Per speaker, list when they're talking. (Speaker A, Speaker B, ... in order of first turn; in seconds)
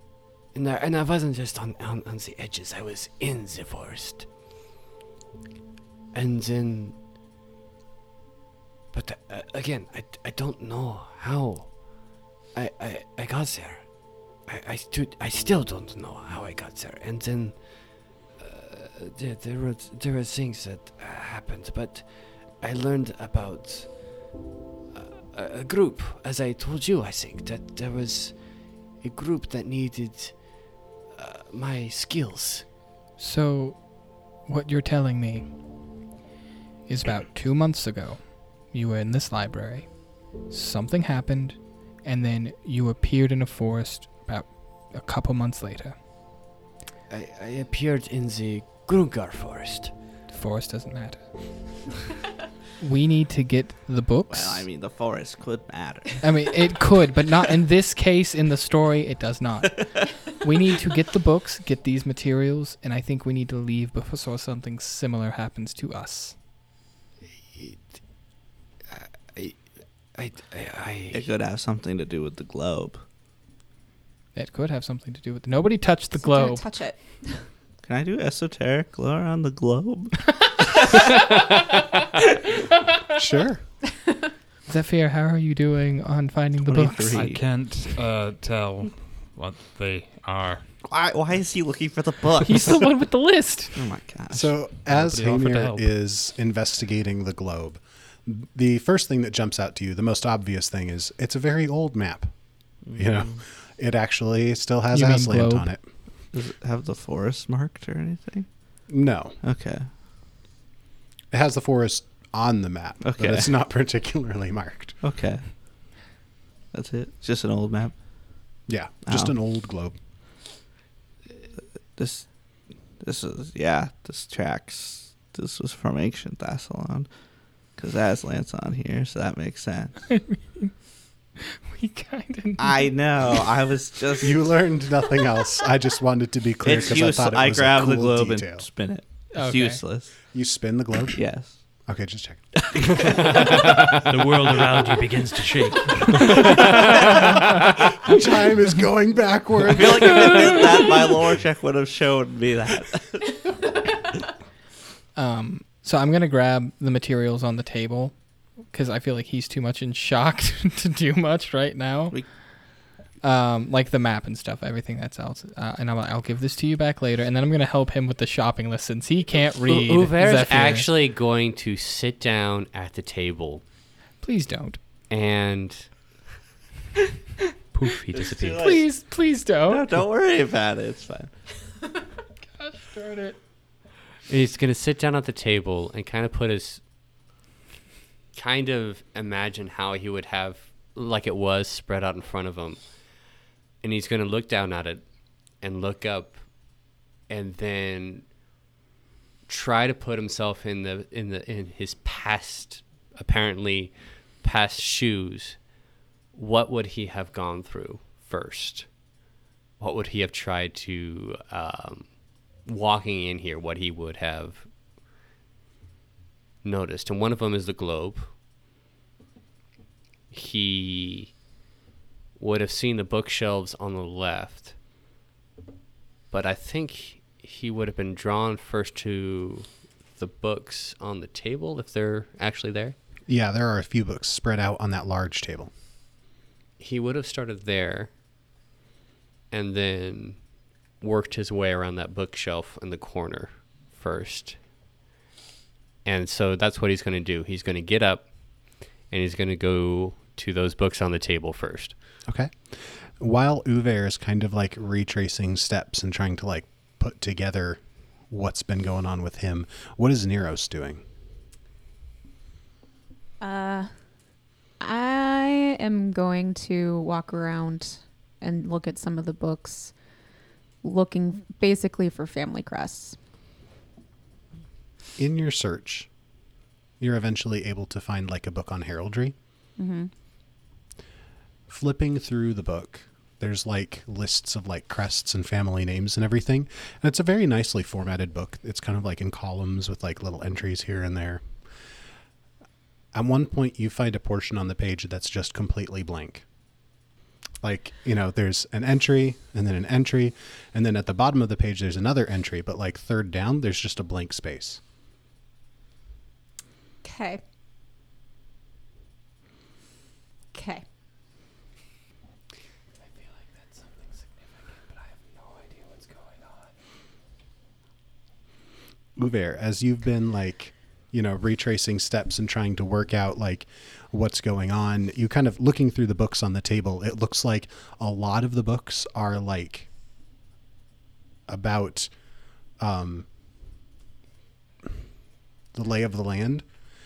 Speaker A: 0.5-4.3, 6.1-7.0, 8.9-13.9, 14.5-24.1, 24.9-28.4, 29.0-32.7, 47.1-49.9, 67.5-67.9, 68.9-69.6, 70.2-71.3
Speaker B: 33.2-35.5, 36.9-46.0, 50.3-51.2, 52.8-54.7, 56.2-66.4, 74.3-76.6, 84.7-87.2, 92.4-93.8, 104.9-105.7, 130.2-130.7, 131.5-132.9, 139.3-139.8, 155.2-162.6, 163.2-170.9, 174.2-174.8, 178.6-179.9, 182.6-183.4
Speaker C: 54.3-56.2, 59.7-60.1, 71.1-73.0, 77.8-81.1, 86.6-87.4, 90.8-92.9, 93.8-94.5, 102.9-103.4, 106.3-108.5, 109.4-109.9, 113.0-113.5, 115.0-115.5, 116.7-118.0, 119.1-119.3, 122.0-122.3, 123.0-127.1, 127.8-130.1, 132.6-134.4, 136.6-140.2, 141.1-141.5, 142.6-143.6, 149.7-153.4, 178.1-178.9, 179.7-181.3
Speaker D: 76.2-77.4, 263.4-263.9, 264.8-269.9, 270.8-273.2, 279.8-280.1, 307.0-307.4, 310.5-310.8
Speaker E: 83.2-83.6, 94.3-102.3, 102.9-105.9, 108.9-109.4, 111.3-115.0, 118.7-120.0, 134.2-138.7, 140.3-141.2, 141.9-143.1, 147.9-150.8, 233.3-235.7, 252.3-261.0, 275.2-276.1, 277.0-279.4, 281.7-291.4, 293.1-296.4, 297.6-304.8, 319.2-329.9, 331.5-332.1, 332.8-333.3, 335.7-336.6
Speaker F: 87.1-90.7, 94.9-95.9, 143.6-147.7, 177.7-178.8
Speaker G: 169.7-173.6, 175.1-175.9, 184.3-186.8, 188.3-192.8, 193.8-195.1, 195.6-196.4, 197.3-198.2, 199.5-205.6, 206.3-208.9, 209.8-212.1, 212.7-214.7, 216.6-218.3, 220.3-221.3, 222.4-224.8, 226.3-233.0, 236.8-238.1, 239.5-240.4, 241.0-244.6, 246.1-248.3, 249.1-251.9